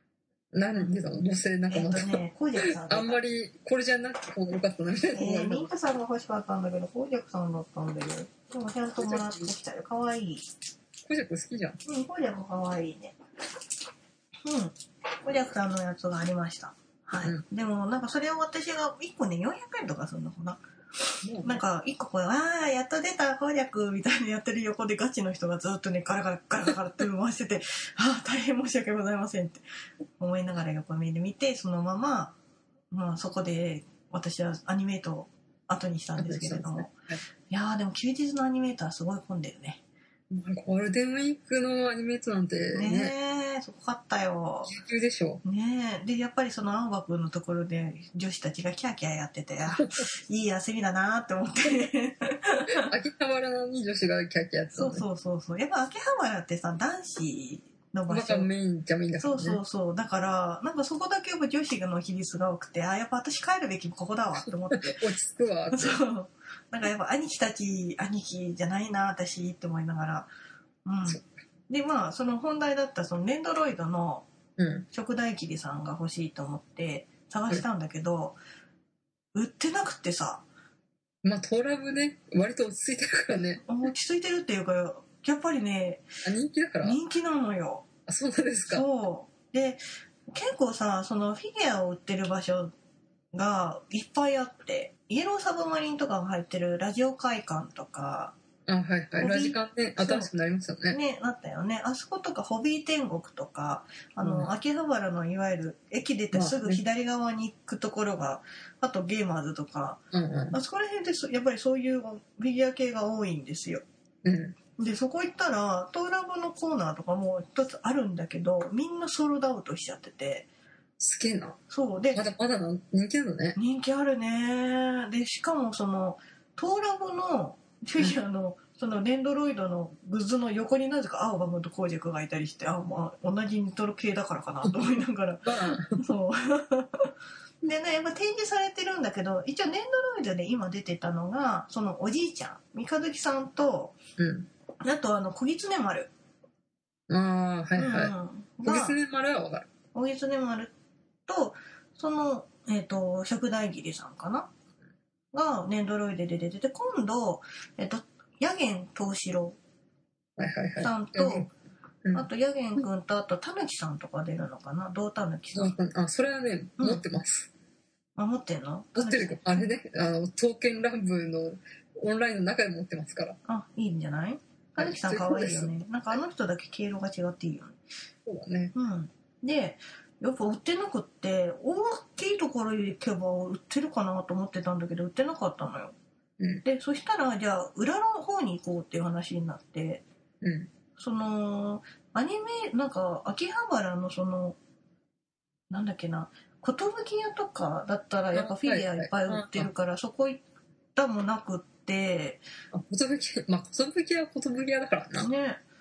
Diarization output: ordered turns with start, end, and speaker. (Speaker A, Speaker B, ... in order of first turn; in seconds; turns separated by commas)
Speaker A: 0.5-5.7, Speaker B: 1.7-3.2, Speaker B: 5.1-10.5, Speaker A: 9.0-9.5, Speaker A: 11.1-11.8, Speaker B: 11.8-13.2, Speaker B: 14.4-29.6, Speaker A: 21.2-21.6, Speaker B: 30.2-32.4, Speaker B: 32.9-36.9, Speaker A: 36.2-37.2, Speaker B: 37.5-39.8, Speaker A: 40.3-43.1, Speaker B: 42.8-44.7, Speaker A: 44.6-45.4, Speaker B: 45.4-52.9, Speaker A: 52.8-55.0, Speaker B: 54.8-58.5, Speaker A: 58.1-59.6, Speaker B: 59.2-65.1, Speaker A: 64.7-66.0, Speaker B: 65.7-70.3, Speaker B: 70.8-74.3, Speaker A: 74.6-74.9, Speaker B: 74.9-78.4, Speaker B: 79.3-80.4, Speaker A: 81.2-83.6, Speaker B: 83.7-86.0, Speaker A: 86.2-87.0, Speaker B: 86.8-87.9, Speaker A: 88.1-88.8, Speaker B: 88.7-92.7, Speaker B: 93.3-98.4, Speaker A: 98.7-101.0, Speaker B: 99.2-100.3, Speaker B: 100.9-110.0, Speaker A: 104.2-104.5, Speaker A: 106.3-106.8, Speaker A: 110.1-110.5, Speaker B: 110.5-113.8, Speaker A: 114.2-114.6, Speaker B: 114.8-120.5, Speaker A: 121.0-121.6, Speaker B: 121.7-122.2, Speaker A: 122.1-123.6, Speaker B: 123.6-137.1, Speaker A: 135.4-136.0, Speaker B: 137.6-144.0, Speaker A: 144.2-144.5, Speaker B: 144.8-146.1, Speaker A: 147.1-148.1, Speaker B: 147.8-148.9, Speaker A: 148.6-149.7, Speaker B: 149.9-150.7, Speaker B: 151.3-154.5, Speaker B: 155.3-159.6, Speaker A: 160.4-161.5, Speaker B: 160.8-161.5, Speaker B: 162.1-165.8, Speaker A: 165.5-167.5, Speaker B: 166.8-167.0, Speaker B: 168.2-169.7, Speaker A: 168.9-173.4, Speaker B: 173.5-177.8, Speaker A: 174.8-175.8, Speaker A: 178.3-178.7, Speaker B: 178.8-185.9, Speaker B: 186.7-190.0, Speaker A: 190.4-190.7, Speaker B: 191.0-194.6, Speaker B: 195.7-200.4, Speaker A: 198.3-199.7, Speaker B: 200.9-202.4, Speaker A: 202.7-205.3, Speaker B: 205.2-205.6